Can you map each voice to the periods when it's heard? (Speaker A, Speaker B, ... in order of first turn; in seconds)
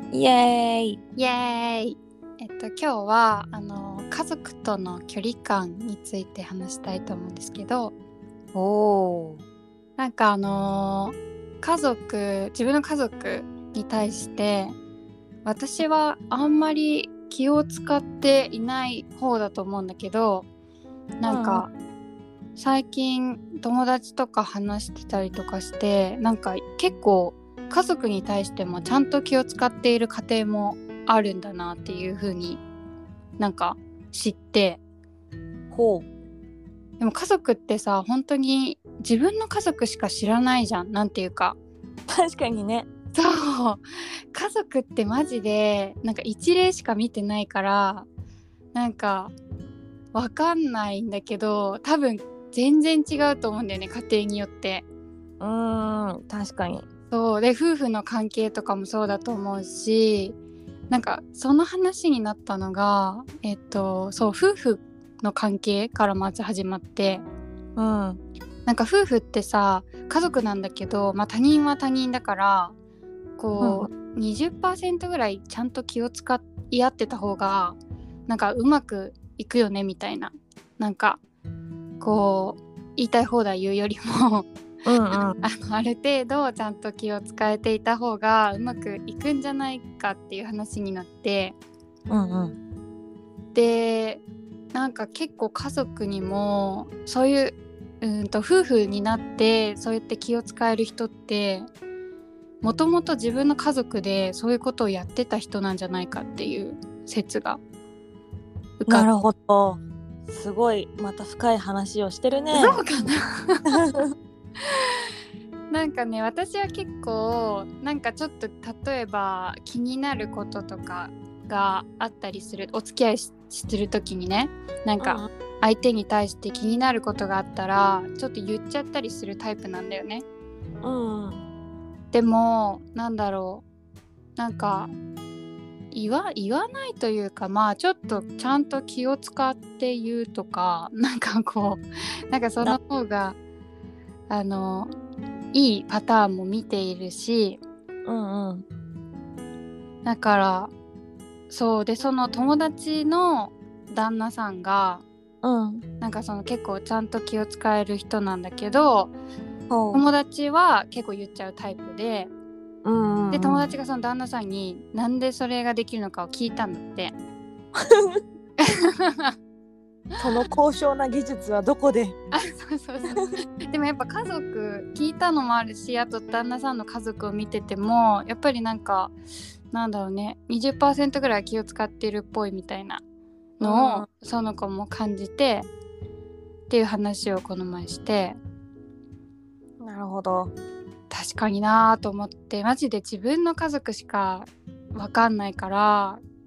Speaker A: 0.1-1.0, 8.6-9.4, 21.2-21.6, 35.7-36.1, 42.1-42.9, 55.4-56.9, 67.8-68.2, 73.6-73.9, 84.9-85.4, 92.1-92.5, 108.9-112.8, 113.7-114.1, 125.0-125.3, 130.8-131.4, 148.1-148.7, 155.4-155.8, 159.7-160.0, 162.8-163.7, 167.8-168.2, 170.2-172.2, 183.6-184.1, 189.8-190.5
Speaker B: 1.2-7.9, 10.0-14.8, 15.4-20.5, 21.2-21.7, 22.6-32.6, 33.4-34.8, 37.0-41.6, 43.1-48.1, 48.7-49.3, 50.1-54.9, 57.1-60.4, 60.9-67.2, 68.7-72.8, 73.4-77.8, 78.3-81.2, 82.0-84.5, 85.1-91.6, 93.5-94.2, 94.7-101.7, 102.6-107.6, 108.8-109.1, 112.5-114.0, 114.6-115.1, 115.7-130.2, 132.1-133.6, 134.4-134.9, 135.9-143.4, 144.3-144.9, 145.5-147.6, 150.1-150.7, 151.5-155.0, 156.0-159.1, 159.9-162.3, 163.3-167.2, 168.6-169.3, 172.3-179.2, 179.7-183.0, 183.6-185.7, 186.7-188.4, 191.1-196.2